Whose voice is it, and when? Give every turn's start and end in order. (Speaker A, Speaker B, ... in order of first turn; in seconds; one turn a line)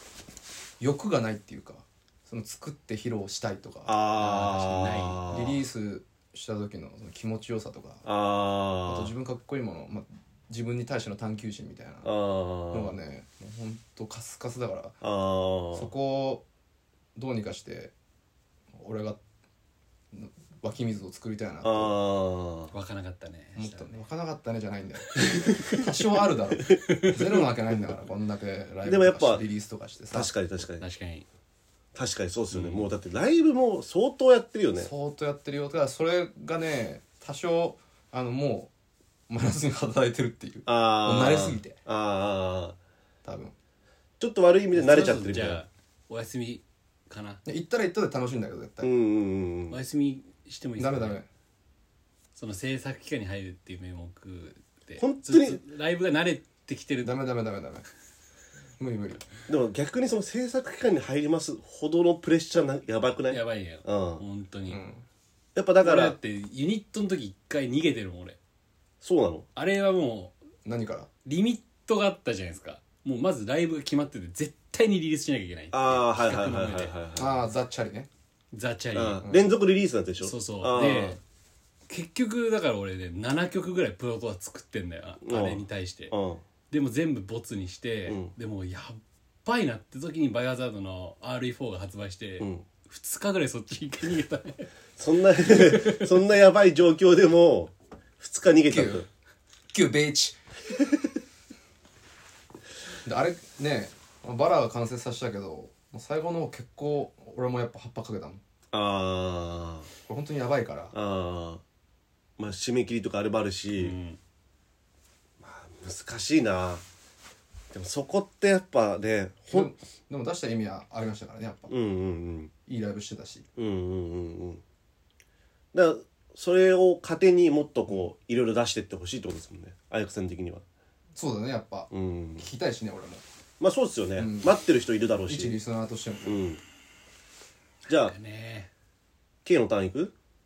Speaker A: 0.8-8.1
Speaker B: 3.9-5.6
Speaker C: 4.2-5.2
Speaker B: 8.1-9.1
Speaker A: 8.8-12.1
Speaker B: 12.0-12.9
Speaker A: 12.7-15.0
Speaker B: 15.0-15.9
Speaker A: 15.7-16.4
Speaker A: 17.1-17.9
Speaker A: 18.8-19.2
Speaker A: 20.1-21.9
Speaker B: 21.6-22.7
Speaker C: 22.7-24.0
Speaker A: 23.6-30.3
Speaker C: 25.2-25.9
Speaker C: 26.7-27.4
Speaker B: 28.9-29.4
Speaker B: 30.1-30.8
Speaker C: 30.8-31.3
Speaker B: 31.9-34.9
Speaker C: 32.5-32.9
Speaker A: 34.8-38.7
Speaker A: 39.3-41.8
Speaker B: 40.7-42.8
Speaker A: 43.2-43.5
Speaker B: 44.2-45.6
Speaker C: 44.7-47.4
Speaker A: 47.5-48.9
Speaker B: 48.8-49.8
Speaker C: 49.7-51.2
Speaker A: 50.8-51.3
Speaker C: 52.4-57.1
Speaker B: 55.0-55.6
Speaker A: 57.0-57.9
Speaker A: 58.8-59.3
Speaker B: 59.5-64.2
Speaker C: 63.3-64.8
Speaker A: 64.7-65.0
Speaker B: 65.5-66.2
Speaker C: 65.8-68.4
Speaker B: 69.0-69.5
Speaker C: 69.5-70.4
Speaker A: 70.7-71.1
Speaker C: 71.2-77.0
Speaker B: 75.7-77.4
Speaker A: 77.2-78.1
Speaker C: 78.5-79.2
Speaker B: 78.9-81.2
Speaker A: 79.2-79.5
Speaker C: 80.2-81.2
Speaker C: 81.9-86.1
Speaker B: 85.2-86.4
Speaker C: 86.7-94.7
Speaker B: 92.4-92.7
Speaker B: 95.0-99.1
Speaker C: 95.5-96.0
Speaker A: 98.7-99.0
Speaker A: 99.7-100.4
Speaker A: 103.0-108.4
Speaker B: 108.7-109.9
Speaker A: 110.1-110.9
Speaker B: 110.9-111.6
Speaker B: 112.4-114.0
Speaker C: 113.7-114.2
Speaker B: 115.4-116.8
Speaker B: 117.7-119.7
Speaker A: 119.5-121.7
Speaker B: 121.7-122.5
Speaker A: 122.7-123.5
Speaker B: 123.6-124.6
Speaker B: 125.7-130.6
Speaker A: 131.2-133.2
Speaker B: 131.9-132.5
Speaker B: 133.6-135.6
Speaker A: 134.2-134.5
Speaker A: 135.3-136.4
Speaker B: 136.2-136.6
Speaker C: 137.9-138.7
Speaker B: 137.9-138.1
Speaker B: 139.4-140.1